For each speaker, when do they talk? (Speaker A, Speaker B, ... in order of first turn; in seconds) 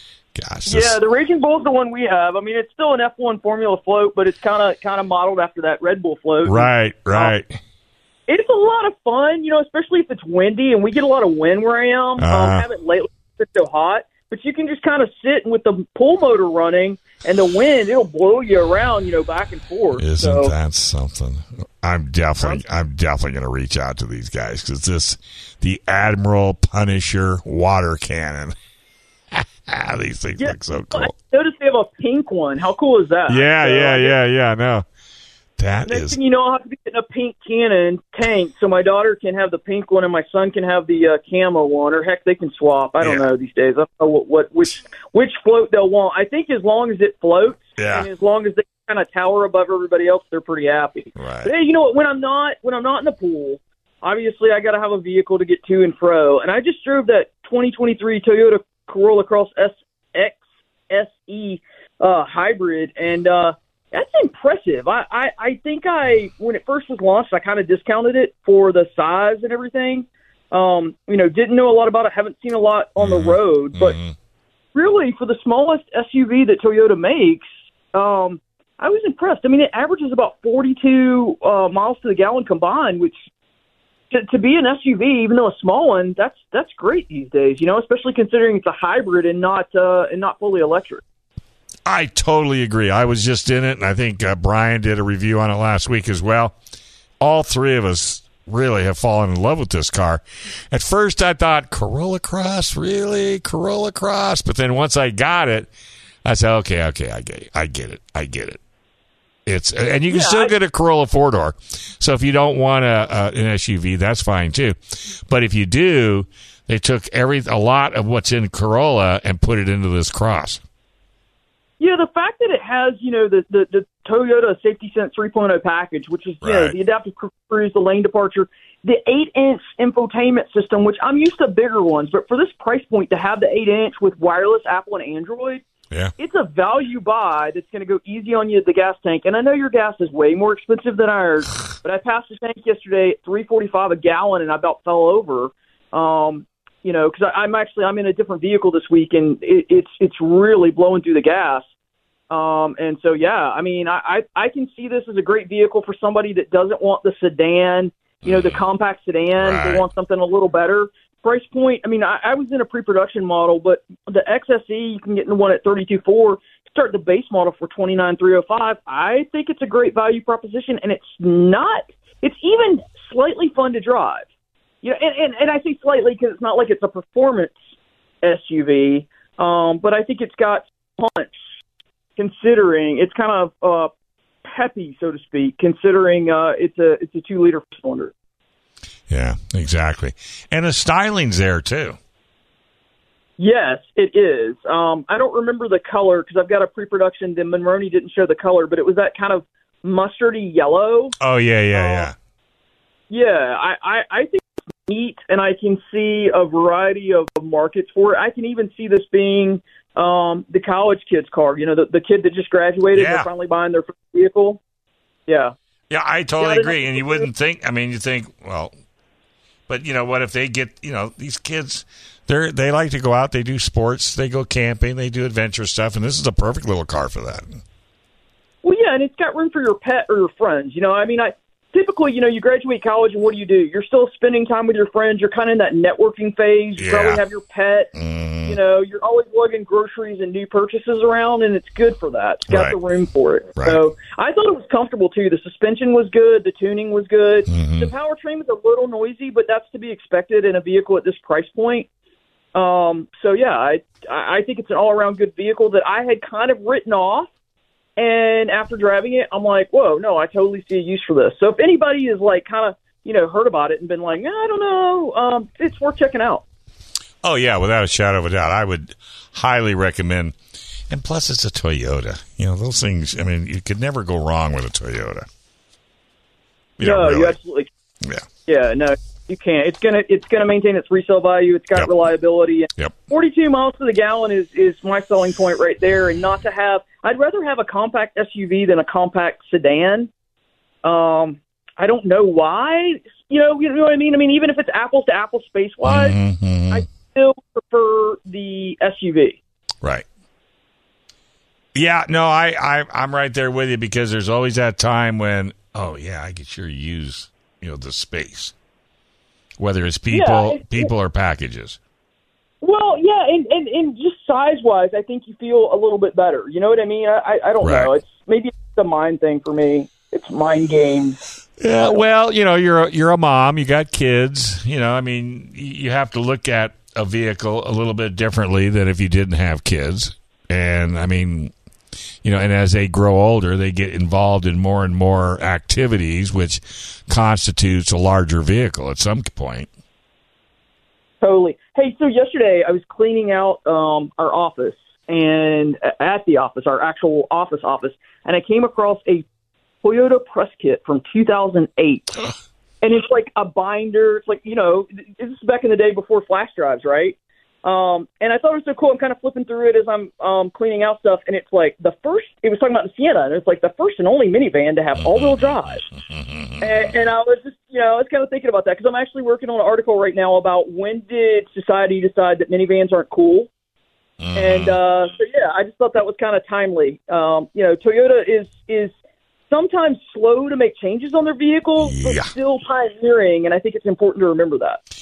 Speaker A: 0.3-1.0, 6.4-7.6, 12.2-12.7, 20.0-28.6, 29.3-31.1, 33.3-34.9, 35.6-36.2, 43.0-43.3, 47.8-48.1, 51.2-51.5, 73.0-74.2, 91.9-96.6, 97.2-105.7, 106.2-108.6, 109.5-120.6, 126.4-126.8, 158.2-158.6, 159.4-159.9, 189.1-192.0, 201.2-202.1, 212.9-213.3, 215.9-218.7, 219.7-227.6, 236.8-237.2, 237.9-238.6, 242.5-242.8, 247.5-247.9, 267.2-270.4, 270.9-275.3, 276.8-277.4, 295.8-296.9, 301.8-308.5, 309.6-311.8, 317.6-317.9, 321.6-331.5, 332.2-339.7, 365.0-366.9, 374.2-374.8, 381.8-382.3
Speaker B: 0.7-7.3, 8.3-20.5, 30.4-34.2, 35.9-74.0, 74.8-83.2, 84.1-91.0, 110.1-110.5, 121.8-135.6, 136.2-151.7, 152.3-174.2, 174.8-177.6, 178.2-181.4, 182.2-183.9, 184.4-188.1, 193.4-201.2, 201.7-202.1, 203.1-214.6, 215.3-215.5, 216.4-217.3, 228.6-237.9, 238.5-251.9, 252.6-257.3, 258.0-266.4, 276.8-277.7, 278.5-290.1, 290.8-296.2, 296.7-299.4, 310.1-310.9, 312.6-321.2, 341.2-349.3, 349.8-352.3, 352.8-365.9, 366.6-373.5, 374.4-378.9, 379.5-384.8